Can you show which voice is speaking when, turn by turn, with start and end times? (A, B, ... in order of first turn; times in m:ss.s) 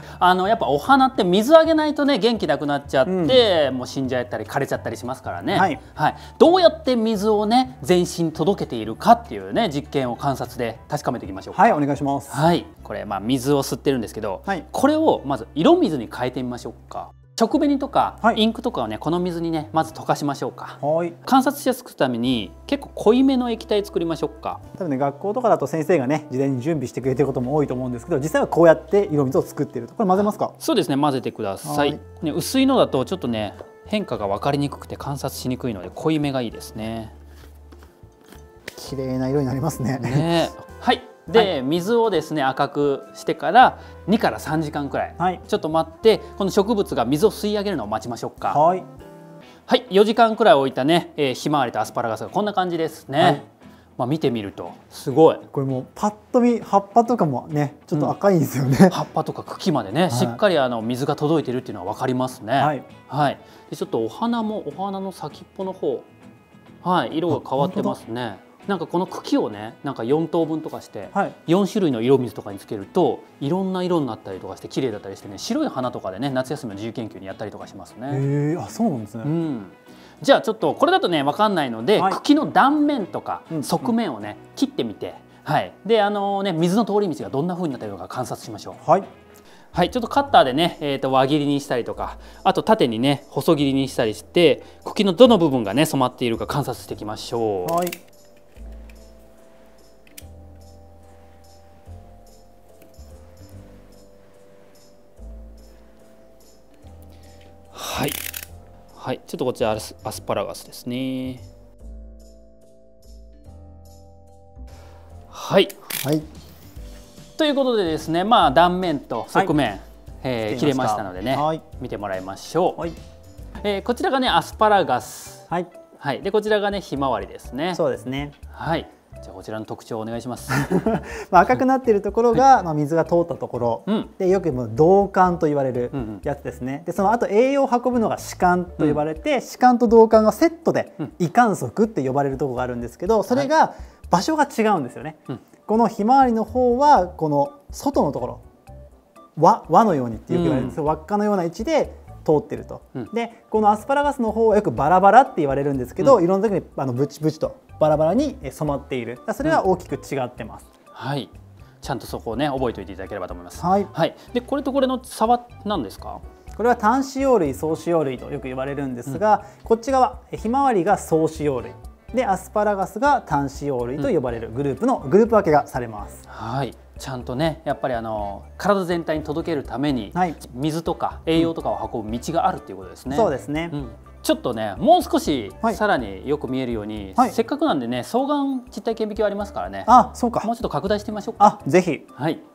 0:00.2-0:24.6 A
0:03.0-0:03.4 B
0:05.5-0:05.8 B
0:11.5-0:12.4 B
0:20.8-0:21.2 B
0:24.7-0:30.5 B
0:30.2-0:37.1 A
0:31.6-0:32.0 B
0:38.8-0:40.4 B
0:40.0-0:48.6 A
0:48.5-0:48.8 B
0:49.7-0:53.4 A
0:54.0-0:55.4 A
0:55.5-0:59.0 B
0:58.9-1:06.1 A
1:00.1-1:00.4 B
1:02.6-1:02.8 B
1:06.8-1:18.2 A
1:07.3-1:08.0 B
1:18.1-1:19.3 B
1:19.2-1:28.8 A
1:23.5-1:23.9 B
1:29.7-1:37.8 A
1:37.6-1:38.0 B
1:47.7-1:48.2 A
1:49.0-1:51.4 A
1:55.3-1:55.9 A
1:57.4-2:02.8 A
2:00.5-2:01.6 B
2:03.6-2:07.8 A
2:07.7-2:08.3 B
2:08.5-2:10.6 A
2:10.5-2:28.4 B
2:13.9-2:14.1 A
2:15.9-2:16.2 A
2:29.4-2:40.7 B
2:30.3-2:30.8 A
2:40.9-2:46.2 A
2:43.6-2:43.9 B
2:46.6-2:56.2 B
2:56.3-3:09.9 A
3:03.1-3:03.8 B
3:09.9-3:10.5 B
3:10.4-3:11.6 A
3:11.4-3:12.0 B
3:12.2-3:12.4 A